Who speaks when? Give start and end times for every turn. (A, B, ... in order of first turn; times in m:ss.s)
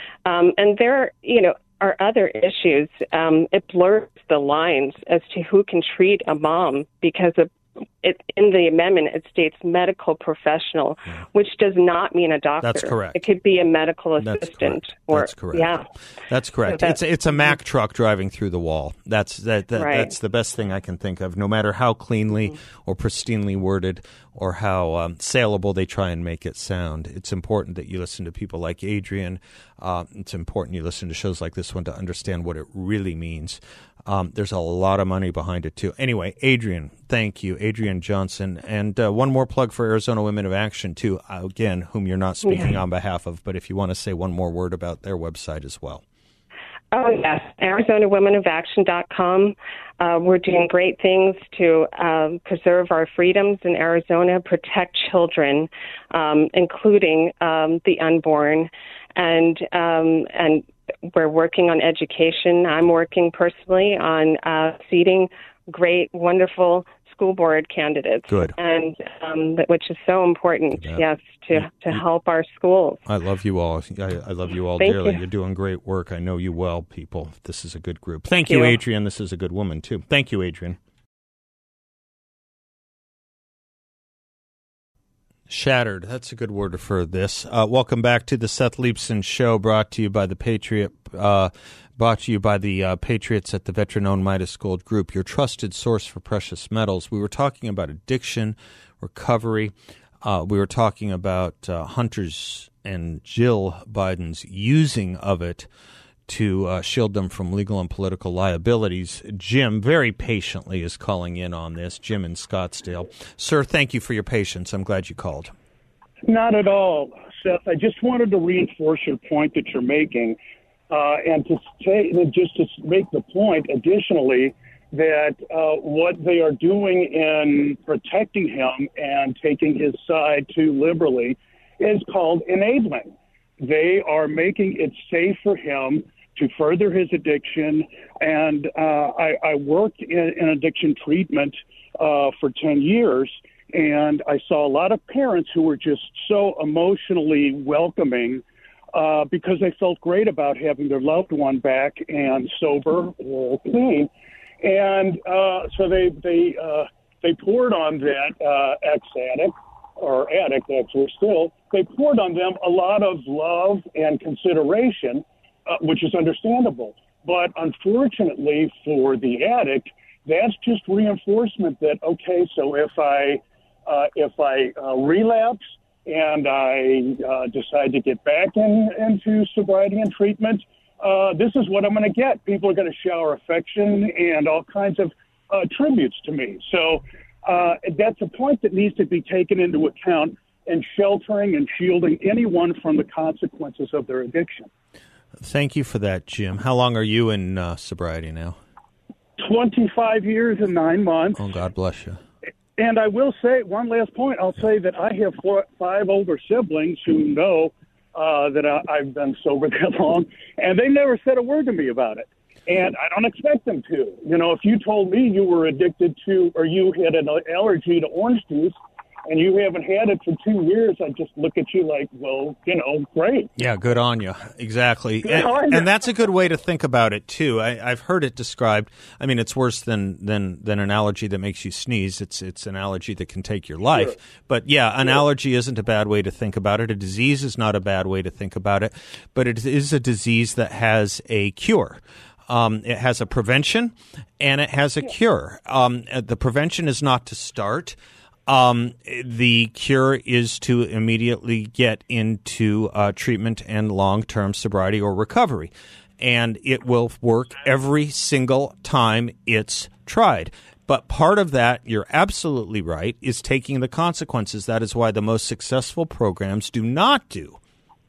0:00.2-0:07.5 A
0:08.0-0:15.9 A
0:12.6-0:13.2 B
0:14.2-0:46.0 B
0:16.7-0:17.0 A
0:19.8-0:20.2 A
0:46.9-1:13.0 A
1:08.3-1:08.5 B
1:10.8-1:11.0 B
1:13.1-1:20.8 B
1:14.8-1:15.2 A
1:18.4-1:18.8 A
1:25.5-1:45.7 B
1:46.3-1:55.5 B
1:56.3-2:00.4 C
2:00.9-2:28.4 C
2:28.9-2:34.1 C
2:34.6-3:14.7 C
3:15.4-3:18.6 B
3:19.4-3:21.4 C
3:21.4-3:22.2 B
3:22.8-3:38.8 C
3:39.3-3:43.5 C
3:43.6-4:27.6 B
3:45.2-3:45.9 C